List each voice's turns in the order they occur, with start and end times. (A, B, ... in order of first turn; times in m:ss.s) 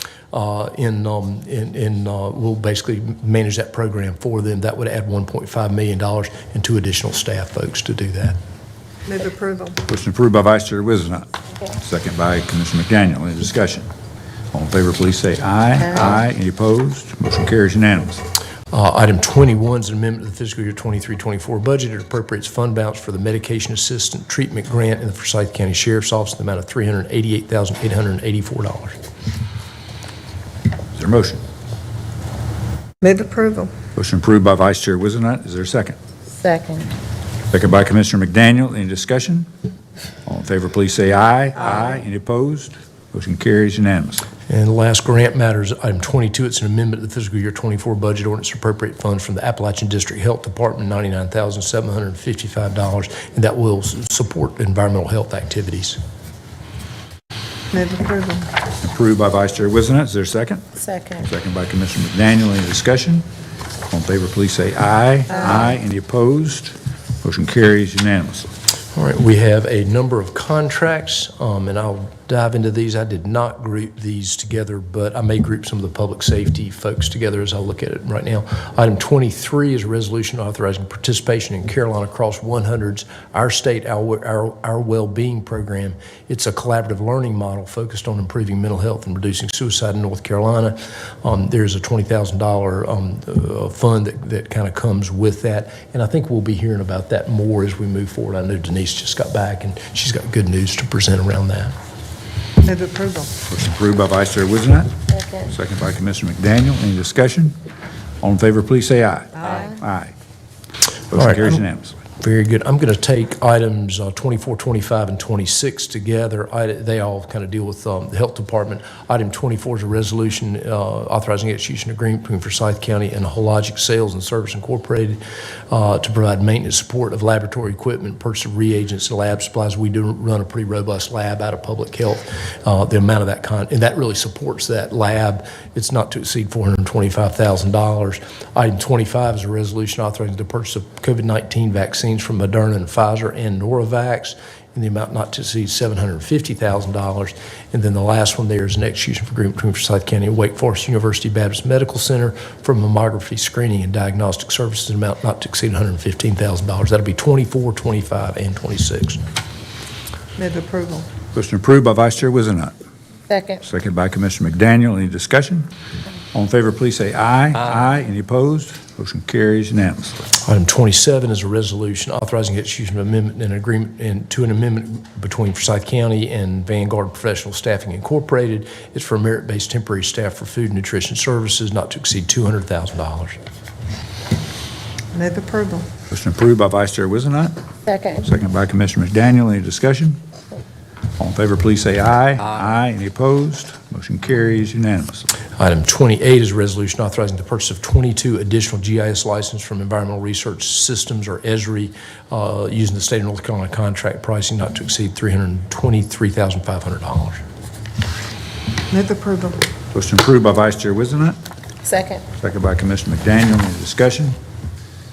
0:00.3-0:08.4 A
0:09.1-0:09.8 B
0:09.9-0:13.9 C
0:14.5-0:18.2 C
0:18.7-0:29.0 A
0:31.0-0:31.4 C
0:33.0-0:33.7 B
0:34.0-0:36.0 C
0:36.4-0:36.9 D
0:37.5-0:39.5 C
0:40.3-0:44.3 C
0:44.5-0:56.0 A
0:57.7-0:58.5 B
0:58.8-1:03.3 C
1:00.8-1:01.2 D
1:03.9-1:08.5 C
1:08.9-1:41.8 A
1:42.6-1:43.3 B
1:43.4-1:47.6 C
1:45.1-1:45.4 D
1:48.2-1:50.1 C
1:49.4-1:49.7 B
1:51.1-1:52.0 C
1:51.2-1:51.6 A
1:52.2-2:05.2 A
2:05.7-2:39.2 A
2:40.4-2:41.1 B
2:41.3-2:42.7 C
2:43.3-2:43.6 D
2:43.6-2:45.7 C
2:46.3-2:50.3 C
2:50.4-3:03.4 A
3:05.1-3:05.9 B
3:06.1-3:07.6 C
3:07.9-3:08.2 D
3:08.1-3:10.2 C
3:11.2-3:15.3 C
3:15.6-3:27.4 A
3:28.9-3:29.6 B
3:29.9-3:31.4 C
3:31.8-3:32.2 D
3:32.3-3:34.4 C